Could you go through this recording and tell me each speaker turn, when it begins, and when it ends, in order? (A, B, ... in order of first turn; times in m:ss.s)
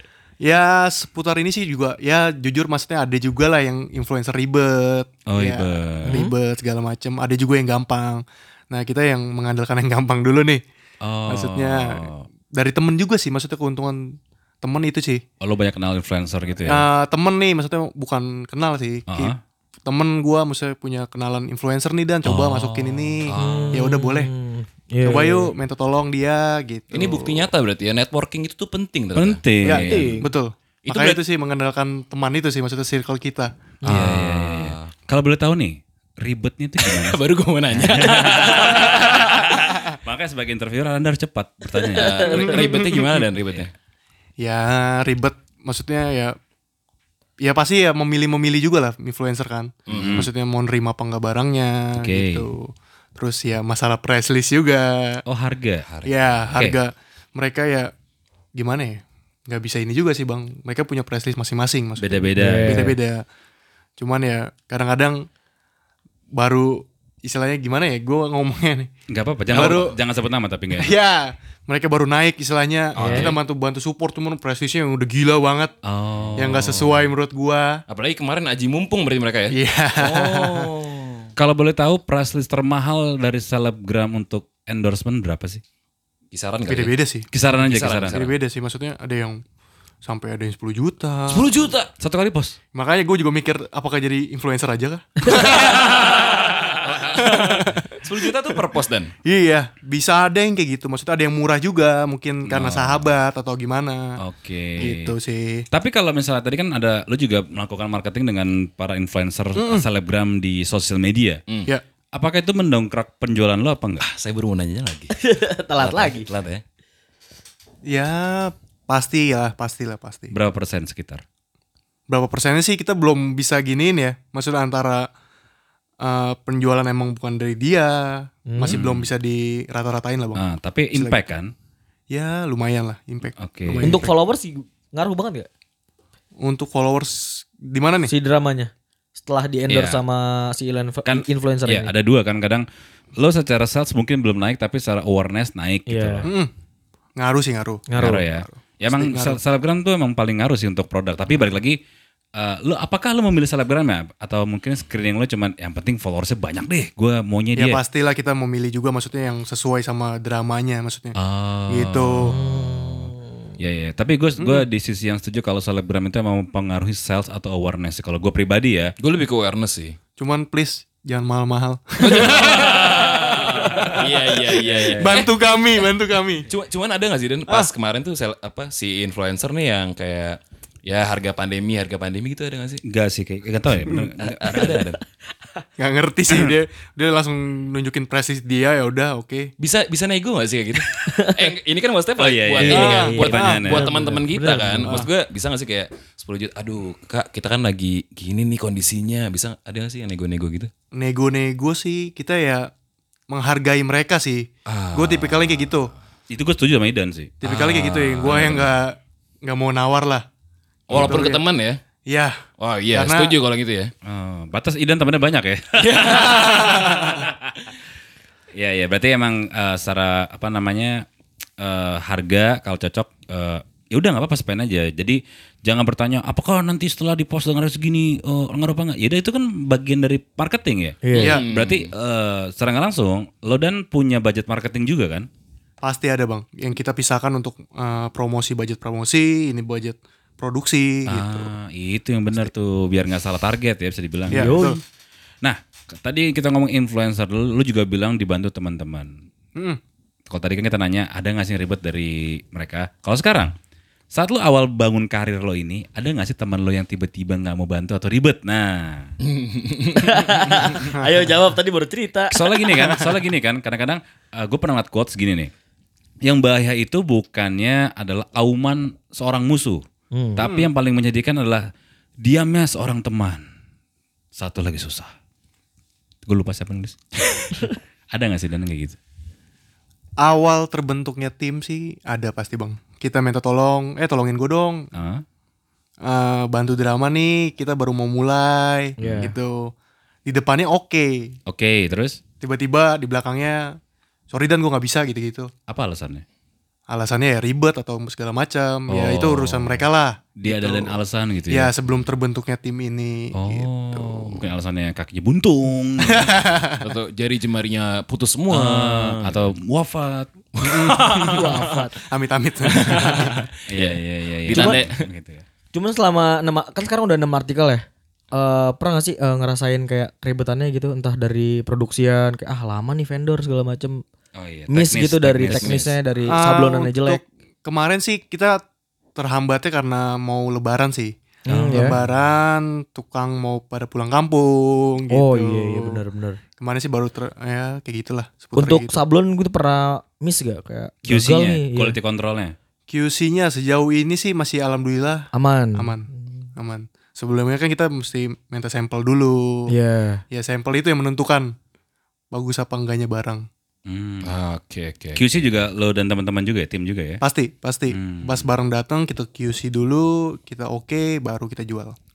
0:00.4-0:10.6 A
0:05.3-0:06.2 B
0:06.0-0:06.3 C
0:11.0-0:12.3 B
0:11.3-0:15.2 A
0:15.4-0:16.8 B
0:16.7-0:19.3 A
0:19.1-0:19.4 B
0:19.8-0:24.3 A
0:22.2-0:23.2 B
0:23.3-0:23.9 D
0:23.3-0:25.5 C
0:25.0-0:27.5 A
0:26.9-0:30.1 D
0:29.2-0:30.1 B
0:29.6-0:33.5 A
0:29.7-0:30.3 C
0:30.8-0:31.2 B
0:33.8-0:37.2 B
0:33.9-0:34.9 D
0:36.8-0:39.8 D
0:37.7-0:42.8 B
0:41.9-0:43.7 D
0:42.0-0:42.4 C
0:42.5-0:43.2 A
0:44.4-0:46.4 A
0:47.4-0:55.2 A
0:49.9-0:50.3 D
0:49.9-0:50.3 B
0:52.0-0:52.5 B
0:55.2-0:55.8 B
0:55.8-0:56.6 D
0:56.0-0:57.9 A
0:58.5-1:03.2 A
1:02.0-1:02.9 B
1:02.4-1:03.0 C
1:04.0-1:05.3 A
1:06.3-1:08.9 A
1:09.1-1:10.9 B
1:09.5-1:09.9 A
1:10.8-1:15.8 A
1:13.0-1:13.4 D
1:13.0-1:13.3 B
1:15.8-1:17.0 B
1:16.4-1:17.8 A
1:17.9-1:21.3 D
1:19.5-1:20.7 A
1:21.4-1:25.6 B
1:26.3-1:26.9 D
1:26.7-1:27.3 A
1:27.3-1:28.2 B
1:27.5-1:28.3 D
1:28.1-1:29.4 A
1:30.0-1:31.5 A
1:31.3-1:31.9 D
1:31.3-1:32.6 B
1:32.7-1:36.0 A
1:35.7-1:39.1 D
1:36.8-1:37.6 B
1:37.2-1:38.6 A
1:39.2-1:44.2 A
1:42.4-1:43.1 B
1:44.2-1:45.1 B
1:44.8-1:45.7 A
1:45.7-1:51.4 B
1:49.6-1:49.8 A
1:52.1-1:54.0 B
1:54.0-1:55.1 D
1:55.2-1:56.3 C
1:55.8-1:56.6 D
1:57.8-2:00.3 A
2:00.3-2:01.2 B
2:02.1-2:05.1 A
2:06.0-2:10.4 A
2:08.5-2:08.8 C
2:08.7-2:09.1 B
2:10.3-2:11.5 B
2:10.9-2:11.2 A
2:12.1-2:14.1 A
2:13.4-2:14.0 B
2:13.8-2:15.5 C
2:16.4-2:18.1 A
2:18.1-2:21.9 C
2:19.7-2:20.0 B
2:21.0-2:22.6 B
2:23.2-2:26.3 B
2:25.9-2:26.3 C
2:26.2-2:26.5 A
2:27.2-2:29.4 A
2:27.9-2:28.2 C
2:28.0-2:31.8 B
2:32.3-2:37.8 B
2:37.6-2:41.1 A
2:41.2-2:42.3 B
2:41.7-2:42.4 A
2:42.2-2:43.2 C
2:43.6-2:48.9 B
2:44.4-2:44.6 A
2:49.0-2:50.0 D
2:50.2-2:54.3 A
2:52.0-2:55.3 D
2:53.6-2:54.0 B
2:54.6-2:55.2 B
2:55.0-2:56.5 A
2:56.5-3:02.8 D
3:02.8-3:04.8 B
3:04.2-3:05.0 D
3:05.8-3:09.5 A
3:09.6-3:20.7 D
3:11.1-3:11.4 C
3:12.2-3:13.9 B
3:12.6-3:14.9 C
3:12.7-3:13.7 A
3:20.9-3:22.7 A
3:23.3-3:25.9 A
3:24.6-3:25.9 D
3:26.3-3:28.5 B
3:27.4-3:30.2 A
3:27.6-3:28.6 D
3:30.9-3:31.8 D
3:30.9-3:31.4 A
3:32.1-3:33.4 A
3:32.6-3:33.9 D
3:34.0-3:37.5 B
3:35.8-3:37.2 A
3:38.5-3:41.1 B
3:41.6-3:55.3 B
3:51.0-3:51.4 C
3:51.1-3:51.9 D
3:51.1-3:51.4 A
3:55.8-4:01.5 A
4:01.1-4:04.7 B
4:04.3-4:04.8 A
4:04.3-4:04.8 C
4:05.4-4:09.1 B
4:10.3-4:13.5 B
4:14.1-4:19.1 B
4:19.2-4:20.7 D
4:20.0-4:22.4 C
4:20.7-4:21.3 A
4:22.3-4:25.5 B
4:22.7-4:23.1 A
4:26.2-4:29.8 B
4:30.1-4:30.4 C
4:30.4-4:31.6 B
4:32.2-4:33.4 B
4:34.3-4:35.1 B
4:36.2-4:39.0 B
4:40.2-4:44.9 A
4:44.9-4:45.2 B
4:46.0-4:49.7 A
4:49.0-4:49.3 C
4:50.2-4:51.3 A
4:51.5-4:52.2 B
4:52.4-4:53.8 A
4:54.3-4:55.5 A
4:55.7-4:56.2 B
4:56.9-5:01.0 A
4:58.9-4:59.8 B
5:00.4-5:01.7 B
5:01.5-5:04.4 A
5:03.3-5:06.4 B
5:06.1-5:06.9 A
5:06.8-5:09.5 D
5:08.5-5:11.4 B
5:10.6-5:11.8 D
5:10.6-5:13.4 A
5:11.3-5:12.0 C
5:12.6-5:15.0 D
5:13.7-5:15.4 B
5:14.5-5:14.8 C
5:15.7-5:24.0 C
5:24.3-5:25.9 B
5:24.7-5:27.2 C
5:25.4-5:25.9 D
5:26.3-5:28.6 A
5:29.2-5:31.1 A
5:31.5-5:32.0 C
5:31.5-5:32.1 B
5:31.7-5:36.0 A
5:35.1-5:36.4 C
5:36.6-5:39.0 A
5:38.6-5:42.0 C
5:41.0-5:42.5 B
5:42.9-5:49.7 A
5:45.3-5:46.5 C
5:49.7-5:50.2 C
5:50.3-5:51.5 A
5:52.3-5:53.5 A
5:53.9-5:54.3 B
5:54.2-5:55.2 D
5:55.1-5:57.2 B
5:57.2-6:02.0 A
5:57.9-5:58.5 B